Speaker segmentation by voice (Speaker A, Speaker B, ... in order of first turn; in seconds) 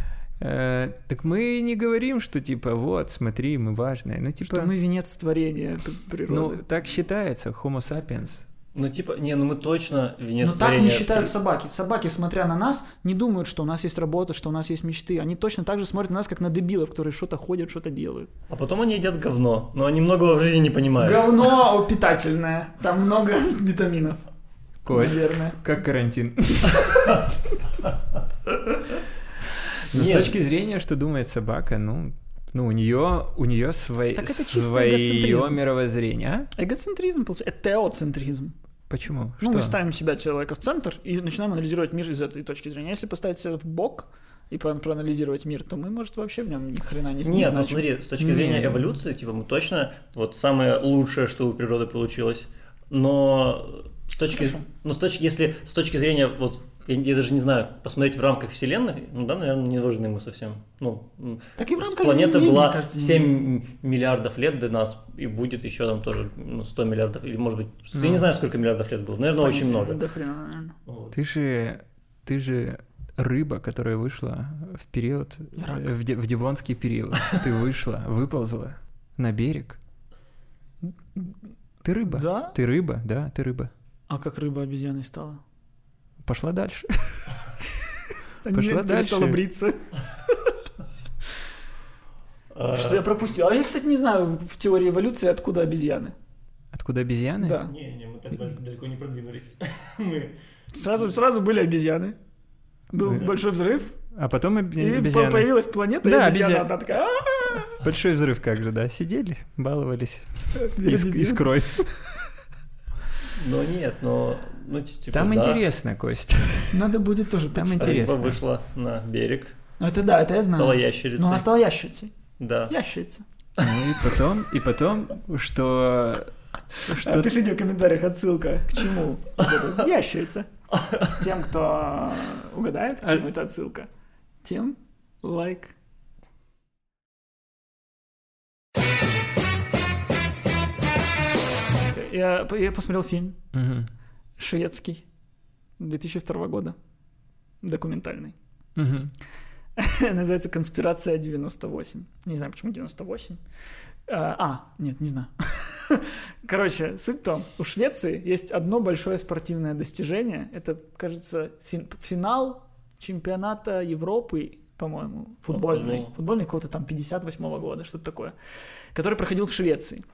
Speaker A: 0.4-4.7, 6.3-8.5, 24.8-27.2, 29.9-36.5, 38.9-39.8, 48.2-48.8, 68.0-68.3, 71.1-79.8, 81.8-83.7, 86.2-87.2, 88.5-89.4, 96.7-97.6, 104.1-105.5, 106.0-106.7, 107.8-111.9, 115.1-116.8, 117.5-118.3, 123.6-127.3, 143.5-143.9, 148.8-149.1
Speaker B: 4.5-6.6, 10.4-18.3, 21.0-24.2, 24.9-25.6, 34.1-35.6, 36.6-38.5, 39.4-47.9, 54.3-54.6, 61.6-63.3, 69.4-70.7, 75.6-75.9, 80.8-81.4, 82.1-82.6, 84.1-85.4, 88.4-90.5, 92.7-96.2, 97.4-97.7, 100.7-102.2, 102.9-104.0, 104.8-107.8, 110.6-111.5, 116.7-118.3, 119.8-122.2, 122.7-123.2, 126.9-130.5, 131.1-133.9, 134.4-135.8, 141.9-143.4, 144.4-145.1, 145.8-146.8, 147.6-148.4, 149.8-153.4, 154.1-168.3, 168.9-170.0
Speaker C: 8.7-11.3, 18.5-21.4, 29.9-30.4, 47.2-70.0, 70.9-71.2, 92.5-93.0, 97.6-100.3, 113.4-115.6, 117.8-119.6, 120.5-121.5, 122.4-122.7, 130.7-131.2, 165.5-166.1